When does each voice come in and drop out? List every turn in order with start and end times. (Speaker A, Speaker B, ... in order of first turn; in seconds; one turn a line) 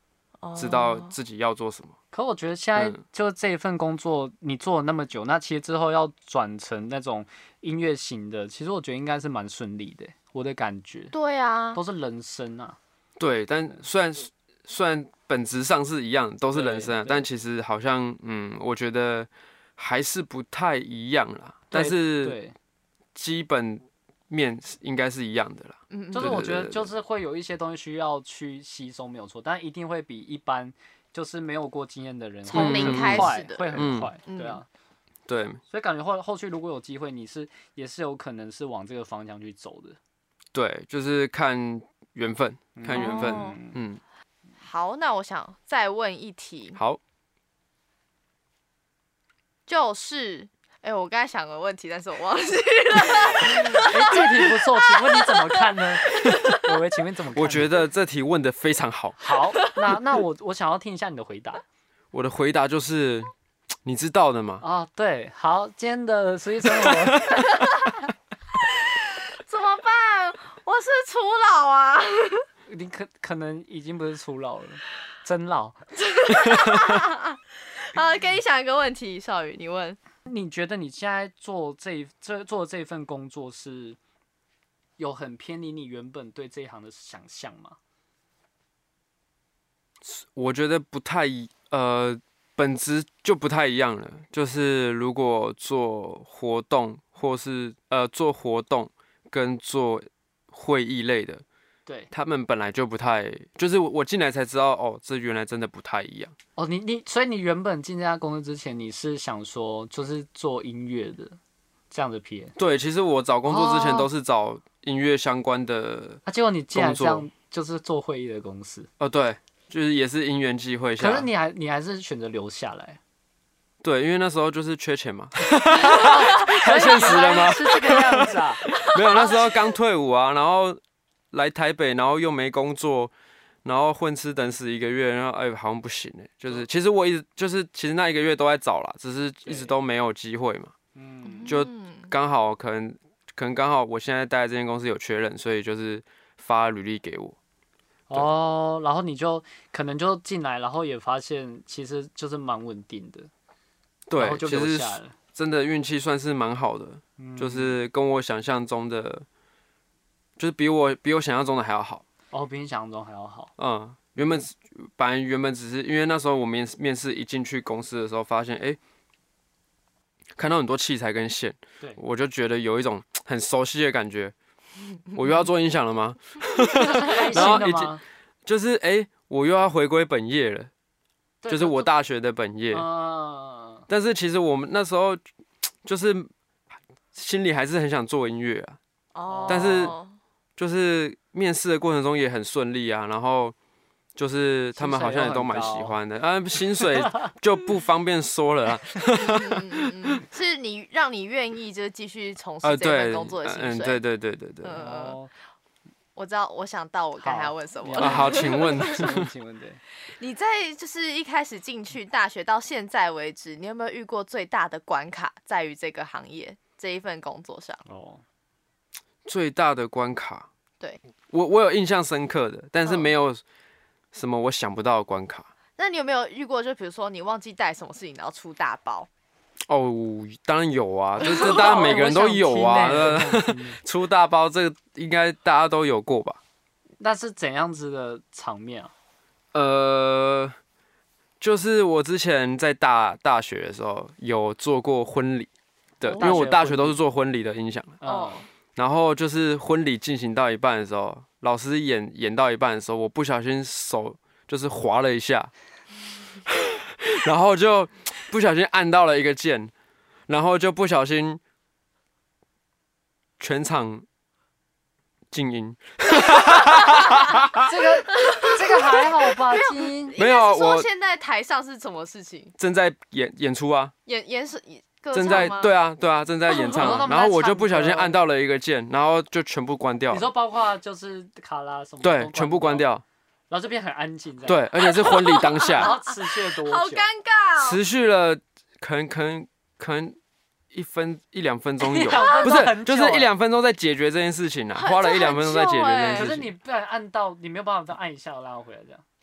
Speaker A: 0.4-1.1
Speaker B: 0.6-2.0
Speaker C: 2.1-11.1
Speaker A: 11.1-11.8
Speaker C: 11.7-12.8
Speaker B: 13.2-22.4
Speaker C: 16.5-17.2
Speaker C: 21.7-22.6
Speaker B: 23.1-26.9
Speaker A: 25.9-26.5
Speaker C: 26.1-34.7
Speaker A: 32.5-34.6
Speaker B: 32.5-34.1
Speaker B: 35.3-35.6
Speaker C: 35.7-40.0
Speaker B: 40.5-44.0
Speaker C: 42.8-43.8
Speaker A: 42.9-43.6
Speaker A: 44.6-46.8
Speaker A: 49.7-56.7
Speaker C: 53.5-57.7
Speaker B: 57.4-59.2
Speaker C: 59.2-61.6
Speaker B: 62.1-63.3
Speaker B: 63.8-64.6
Speaker C: 64.6-67.7
Speaker B: 66.8-67.4
Speaker A: 67.5-67.9
Speaker A: 68.6-72.5
Speaker C: 72.7-75.8
Speaker A: 76.0-80.0
Speaker B: 76.5-76.8
Speaker C: 80.3-84.0
Speaker C: 85.0-87.8
Speaker B: 90.0-101.4
Speaker B: 102.1-106.3
Speaker C: 106.6-111.4
Speaker C: 111.9-112.5
Speaker B: 112.6-116.2
Speaker C: 113.5-114.1
Speaker C: 116.3-118.9
Speaker B: 116.7-117.3
Speaker B: 119.0-121.3
Speaker C: 121.0-123.0
Speaker B: 123.8-130.8
Speaker C: 125.8-128.7
Speaker A: 128.7-129.6
Speaker B: 131.3-133.1
Speaker B: 133.6-140.7
Speaker C: 139.5-139.7
Speaker C: 140.9-141.5
Speaker A: 141.2-142.1
Speaker B: 141.5-147.4
Speaker C: 148.1-153.3
Speaker B: 154.1-159.3
Speaker C: 154.2-155.2
Speaker C: 157.2-157.8
Speaker B: 160.4-162.0
Speaker C: 162.3-163.5
Speaker B: 163.6-168.8
Speaker B: 170.4-174.3
Speaker B: 175.1-180.7
Speaker C: 176.7-178.0
Speaker C: 181.4-181.9
Speaker B: 181.5-182.9
Speaker C: 182.7-183.9
Speaker B: 183.9-185.2
Speaker B: 185.8-186.3
Speaker B: 187.2-188.8
Speaker A: 189.2-190.2
Speaker C: 189.3-189.9
Speaker B: 189.5-190.0
Speaker B: 190.6-193.6
Speaker B: 194.2-199.9
Speaker C: 194.8-196.0
Speaker A: 199.1-204.0
Speaker B: 202.6-204.8
Speaker A: 204.6-205.2
Speaker C: 204.7-205.3
Speaker A: 206.2-209.2
Speaker C: 207.2-209.8
Speaker B: 208.0-209.3
Speaker A: 210.1-217.8
Speaker C: 217.9-218.2
Speaker B: 219.3-220.5
Speaker B: 221.3-223.4
Speaker B: 224.1-225.5
Speaker A: 225.8-229.1
Speaker B: 229.7-236.4
Speaker C: 231.2-233.8
Speaker A: 231.3-231.8
Speaker C: 237.0-238.9
Speaker B: 239.5-240.6
Speaker B: 241.4-245.5
Speaker B: 246.0-248.0
Speaker A: 246.0-246.4
Speaker C: 246.1-247.0
Speaker C: 248.0-248.4
Speaker A: 248.0-248.5
Speaker B: 248.8-255.5
Speaker B: 256.5-259.7
Speaker B: 260.3-261.4
Speaker B: 263.4-264.1
Speaker B: 265.3-267.7
Speaker A: 266.1-267.4
Speaker C: 267.5-270.2
Speaker A: 268.1-272.5
Speaker B: 270.1-270.9
Speaker B: 272.6-273.9
Speaker A: 274.1-275.7
Speaker B: 275.1-280.3
Speaker A: 276.5-277.1
Speaker C: 276.6-278.1
Speaker C: 280.1-282.9
Speaker B: 282.0-283.0
Speaker C: 283.5-284.7
Speaker B: 284.5-285.9
Speaker A: 284.8-287.8
Speaker C: 285.6-287.1
Speaker B: 287.6-290.2
Speaker B: 290.7-296.5
Speaker C: 291.8-293.3
Speaker A: 292.1-292.5
Speaker A: 294.8-296.4
Speaker C: 296.1-299.0